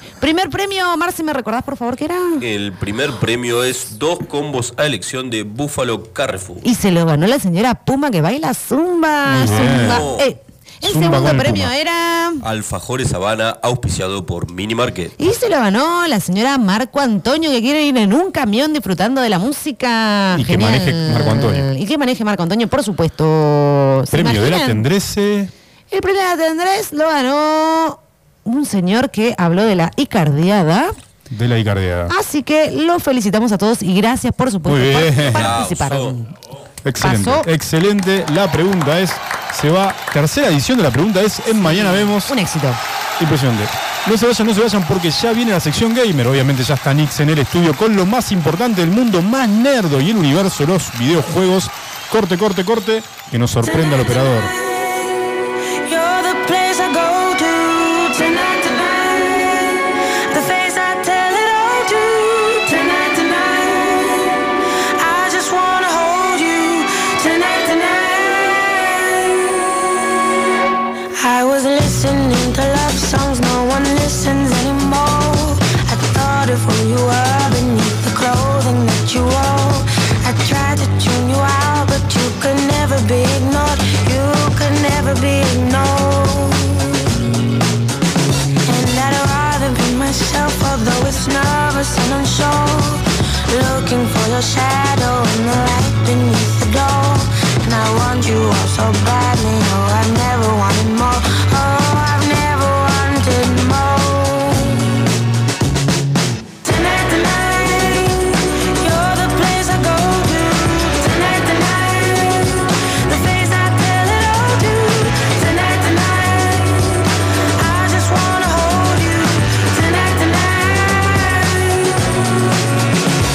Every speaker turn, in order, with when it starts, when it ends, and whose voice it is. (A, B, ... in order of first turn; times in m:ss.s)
0:00.2-0:02.4 A
0:02.4-0:06.6 B
0:06.6-0:12.4 A
0:09.3-0:10.1 C
0:09.6-0:10.3 B
0:10.8-0:11.7 C
0:12.4-0:15.1 B
0:15.2-0:24.8 A
0:20.3-0:21.7 C
0:24.1-0:25.5 C
0:25.9-0:30.9 A
0:31.3-0:32.1 C
0:32.1-0:36.3 A
0:34.7-0:35.5 C
0:35.2-0:36.2 B
0:36.8-0:42.3 C
0:37.0-0:37.5 A
0:41.6-0:42.8 A
0:43.2-0:54.5 C
0:53.6-1:10.0 D
1:11.2-1:27.1 D
1:28.7-1:44.8 D
1:46.6-2:02.9 D